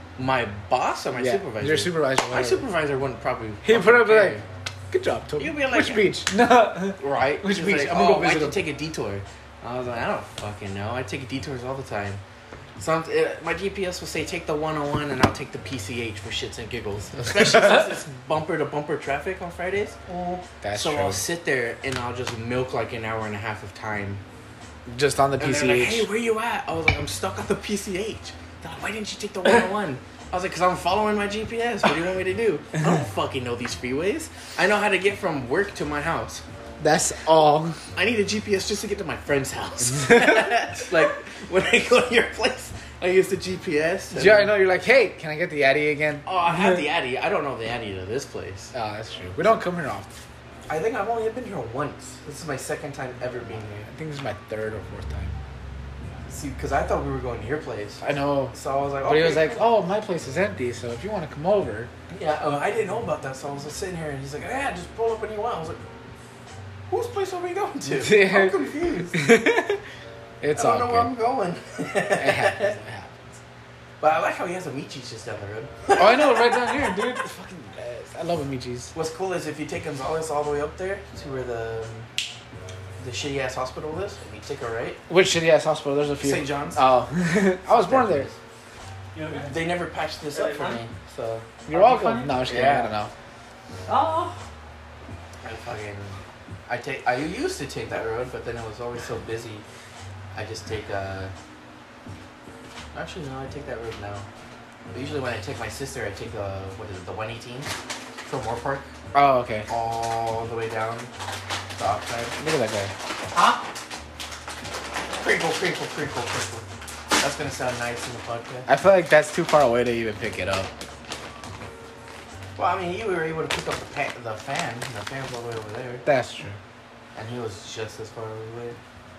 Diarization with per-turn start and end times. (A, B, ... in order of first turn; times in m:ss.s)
0:00.2-0:04.4 A
0:01.1-0:02.6 B
0:03.6-0:08.6 B
0:05.4-0:06.1 A
0:07.0-0:12.2 A
0:12.8-0:20.0 A
0:20.1-0:20.4 C
0:20.6-0:21.2 B
0:20.7-0:24.2 A
0:24.9-0:26.1 B
0:25.4-0:36.4 A
0:36.8-0:37.8 B
0:38.0-0:44.5 A
0:39.9-0:40.7 B
0:44.1-0:46.8 B
0:46.2-0:48.7 A
0:48.7-0:50.1 B
0:50.7-0:53.9 A
0:53.9-0:55.4 B
0:56.2-0:59.6 A
0:58.0-1:01.9 B
1:02.1-1:05.8 A
1:06.9-1:09.2 A
1:07.9-1:08.6 B
1:09.1-1:09.8 B
1:10.4-1:11.1 B
1:10.5-1:12.8 A
1:12.2-1:13.4 B
1:14.0-1:16.7 A
1:15.9-1:18.9 B
1:18.9-1:22.1 A
1:23.0-1:25.0 A
1:25.1-1:28.3 B
1:26.2-1:26.9 A
1:27.6-1:28.4 A
1:29.1-1:29.5 C
1:29.4-1:31.5 A
1:30.3-1:30.8 C
1:31.7-1:33.1 B
1:31.7-1:32.4 C
1:32.5-1:32.9 A
1:33.9-1:34.4 C
1:35.4-1:39.6 A
1:40.3-1:41.3 A
1:42.9-1:44.3 A
1:44.9-1:47.7 A
1:48.2-1:48.9 A
1:49.1-1:49.7 B
1:49.7-1:51.1 A
1:51.7-1:52.4 A
1:52.4-1:52.9 B
1:53.3-1:53.6 C
1:55.2-1:58.7 A
1:58.7-2:00.7 B
2:02.6-2:06.0 A
2:06.1-2:06.6 B
2:07.1-2:08.8 A